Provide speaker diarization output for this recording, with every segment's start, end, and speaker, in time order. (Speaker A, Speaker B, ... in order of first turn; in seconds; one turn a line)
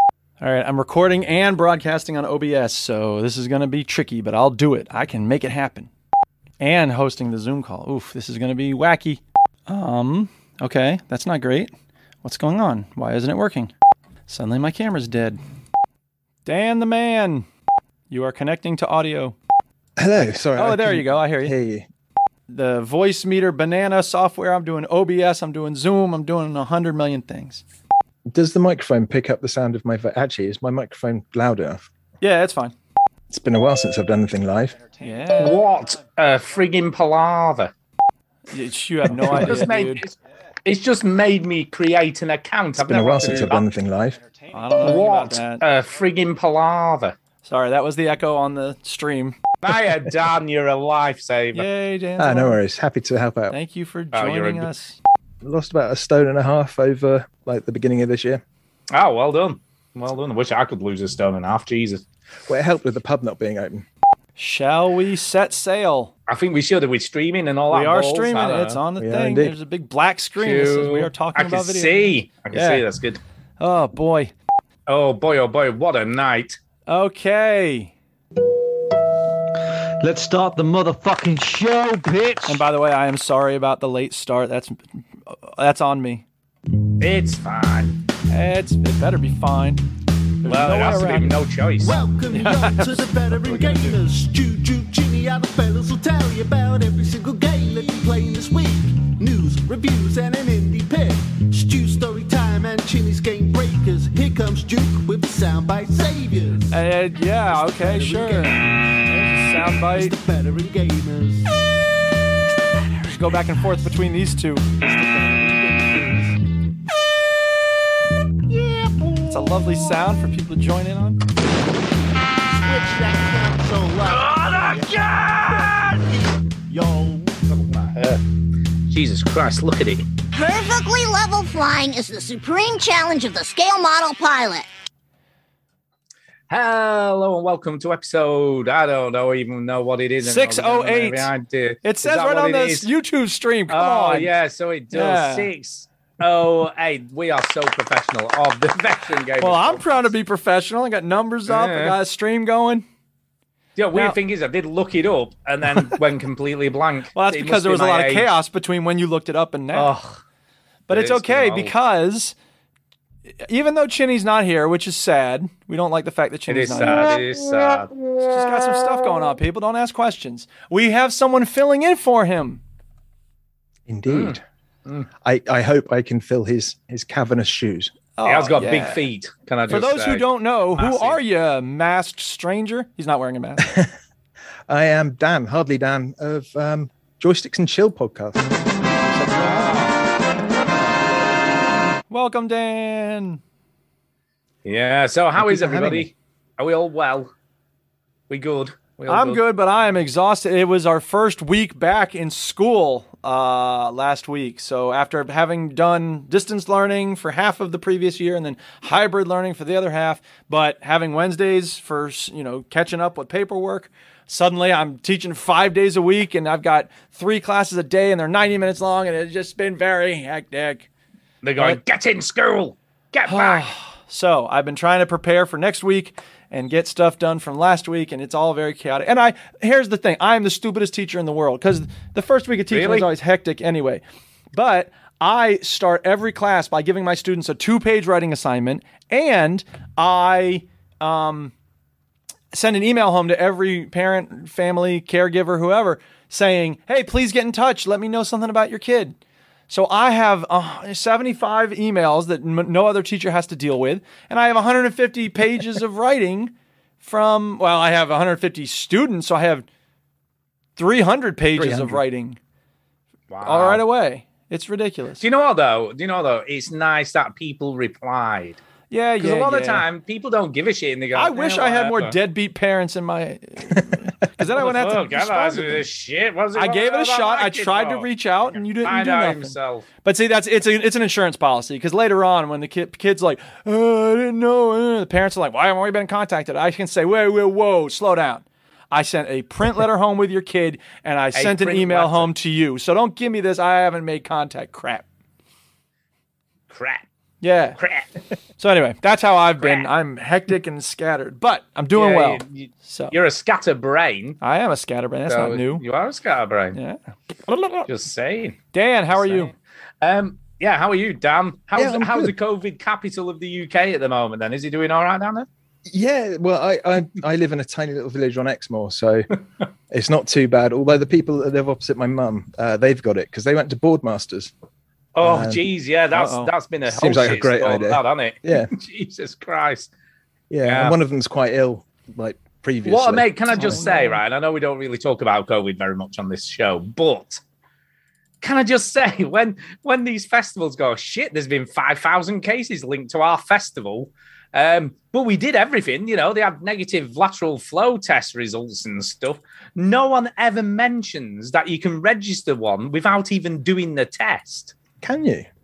Speaker A: 0.4-5.9
Speaker A: 6.6-11.7
Speaker A: 12.2-13.7
Speaker A: 14.3-15.4
Speaker A: 16.4-17.4
Speaker A: 18.1-19.4
Speaker B: 20.0-21.9
Speaker A: 20.6-21.6
Speaker A: 22.5-27.6
Speaker B: 28.3-31.9
Speaker A: 32.2-32.8
Speaker B: 33.3-34.8
Speaker A: 35.0-35.6
Speaker C: 35.4-37.7
Speaker A: 38.5-40.0
Speaker C: 39.2-43.6
Speaker B: 42.8-44.2
Speaker A: 44.5-45.6
Speaker C: 44.8-47.2
Speaker A: 47.4-49.4
Speaker C: 49.6-51.7
Speaker A: 51.5-52.6
Speaker B: 52.2-53.6
Speaker A: 53.5-55.0
Speaker C: 54.1-54.7
Speaker B: 55.4-58.4
Speaker C: 58.9-62.0
Speaker B: 62.5-63.9
Speaker A: 64.4-66.1
Speaker C: 66.3-68.8
Speaker A: 67.7-72.8
Speaker B: 69.0-69.5
Speaker C: 70.4-73.2
Speaker A: 73.6-74.3
Speaker C: 74.9-76.6
Speaker A: 76.9-77.9
Speaker D: 80.0-82.6
Speaker A: 82.5-84.8
Speaker A: 85.3-86.2
Speaker C: 87.0-88.0
Speaker A: 88.3-89.8
Speaker A: 90.4-91.3
Speaker C: 90.4-92.0
Speaker E: 91.8-106.8
Speaker A: 92.3-94.0
Speaker A: 106.7-110.1
Speaker E: 107.5-111.5
Speaker A: 113.0-115.7
Speaker E: 115.0-116.3
Speaker E: 118.5-120.0
Speaker A: 119.3-121.2
Speaker E: 122.4-127.4
Speaker C: 124.5-125.1
Speaker C: 127.5-128.2
Speaker C: 128.9-130.1
Speaker F: 130.3-134.7
Speaker C: 136.5-142.9
Speaker A: 140.2-141.3
Speaker A: 141.8-144.3
Speaker C: 143.7-150.1
Speaker A: 144.9-145.5
Speaker A: 149.4-152.8
Speaker C: 151.5-152.0
Speaker C: 153.8-158.3
Speaker A: 157.1-159.9
Speaker C: 159.7-160.2
Speaker A: 160.9-162.3
Speaker C: 160.9-161.7
Speaker A: 163.4-167.2
Speaker C: 166.5-167.9
Speaker A: 168.3-172.6
Speaker B: 173.9-174.4
Speaker C: 174.1-175.1
Speaker B: 175.2-177.9
Speaker A: 178.2-179.0
Speaker C: 178.2-181.2
Speaker A: 179.7-183.7
Speaker B: 183.6-183.9
Speaker B: 184.7-188.5
Speaker B: 189.0-189.5
Speaker A: 189.2-189.9
Speaker C: 189.5-189.9
Speaker A: 192.1-193.4
Speaker C: 194.7-197.3
Speaker B: 195.4-196.1
Speaker C: 198.3-199.4
Speaker A: 199.1-220.9
Speaker C: 221.4-223.7
Speaker A: 223.3-234.0
Speaker C: 232.7-233.1
Speaker A: 234.5-241.5
Speaker A: 242.5-249.2
Speaker A: 249.7-259.6
Speaker A: 260.8-262.4
Speaker B: 261.6-261.9
Speaker C: 263.3-263.8
Speaker A: 263.4-265.2
Speaker C: 265.2-268.6
Speaker A: 268.9-269.8
Speaker C: 269.2-272.1
Speaker A: 271.1-275.8
Speaker C: 274.5-279.9
Speaker A: 276.5-295.0
Speaker C: 291.3-292.3
Speaker C: 296.7-297.0
Speaker A: 297.4-297.8
Speaker C: 297.8-298.1
Speaker A: 298.6-303.2
Speaker C: 299.6-299.9
Speaker C: 301.9-304.4
Speaker A: 304.4-305.8
Speaker C: 305.3-306.8
Speaker A: 306.7-307.9
Speaker C: 307.9-308.6
Speaker A: 308.7-309.5
Speaker C: 309.1-315.5
Speaker B: 311.8-312.3
Speaker B: 315.9-319.3
Speaker B: 319.9-324.5
Speaker C: 325.1-329.9
Speaker B: 325.2-325.6
Speaker A: 326.1-326.5
Speaker B: 326.9-328.7
Speaker B: 330.5-333.3
Speaker C: 330.6-331.0
Speaker C: 332.8-337.4
Speaker A: 333.5-334.2
Speaker C: 338.4-354.7
Speaker B: 355.0-355.5